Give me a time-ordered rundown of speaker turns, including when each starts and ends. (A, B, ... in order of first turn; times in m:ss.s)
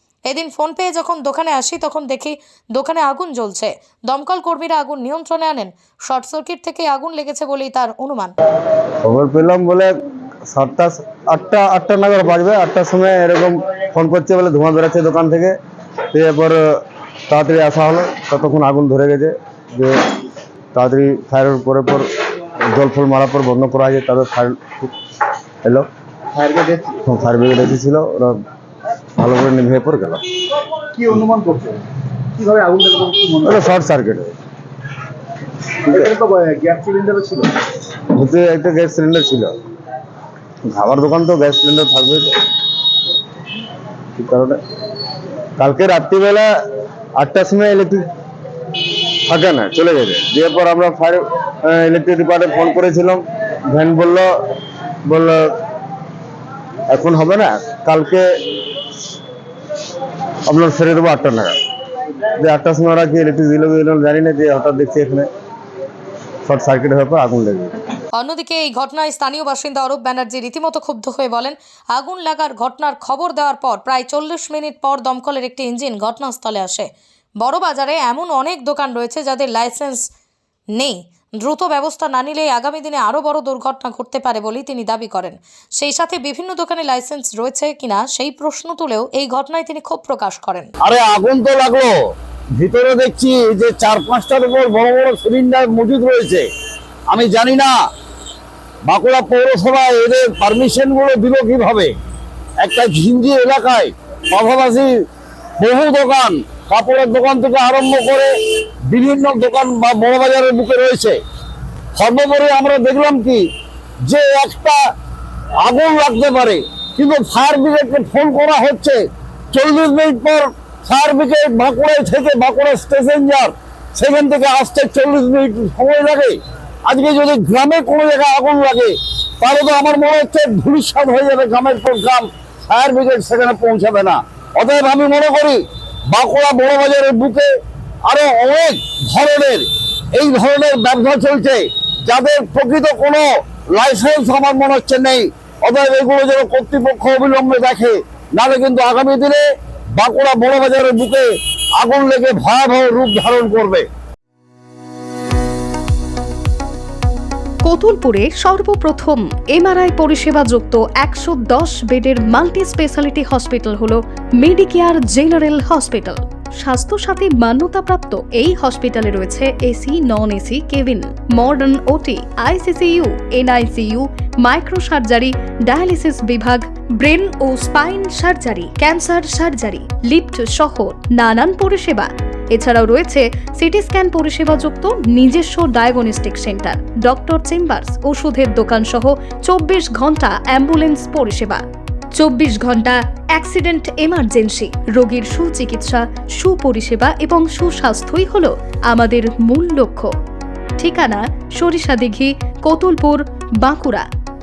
0:00.3-0:08.3 A
0:09.0-0:09.9 B
0:10.5-0:15.5 B
0:16.1-0:16.6 B
0:17.3-0:20.0 B
0:20.7-0:22.1 B
0:22.7-0:24.9 B
0:27.0-0:28.3 B
0:29.2-0:30.2 B
0:31.0-0:31.7 C
0:32.4-0:33.4 C
0:33.4-0:34.3 B
0:36.4-0:37.4 C
0:38.1-0:39.5 B
0:40.7-0:42.4 B
0:44.2-0:44.6 B
0:45.6-0:46.4 B
0:47.2-0:48.0 B
0:49.3-0:54.3 B
0:55.1-0:55.5 B
0:56.9-0:58.2 B
1:00.5-1:01.5 B
1:02.4-1:05.3 B
1:06.4-1:07.7 B
1:08.1-1:16.9 A
1:17.4-1:20.1 A
1:20.8-1:30.7 A
1:30.8-1:31.9 D
1:32.6-1:36.4 D
1:37.1-1:37.7 D
1:38.9-1:41.9 D
1:42.6-1:44.9 D
1:45.6-1:48.3 D
1:48.9-1:51.2 D
1:52.0-1:53.4 D
1:54.1-1:54.8 D
1:55.6-1:59.0 D
1:59.5-2:17.5 D
2:18.0-2:29.4 D
2:30.0-2:31.3 D
2:31.8-2:33.8 D
2:37.6-3:11.6 E
3:12.2-3:20.1 E
3:20.8-3:24.0 E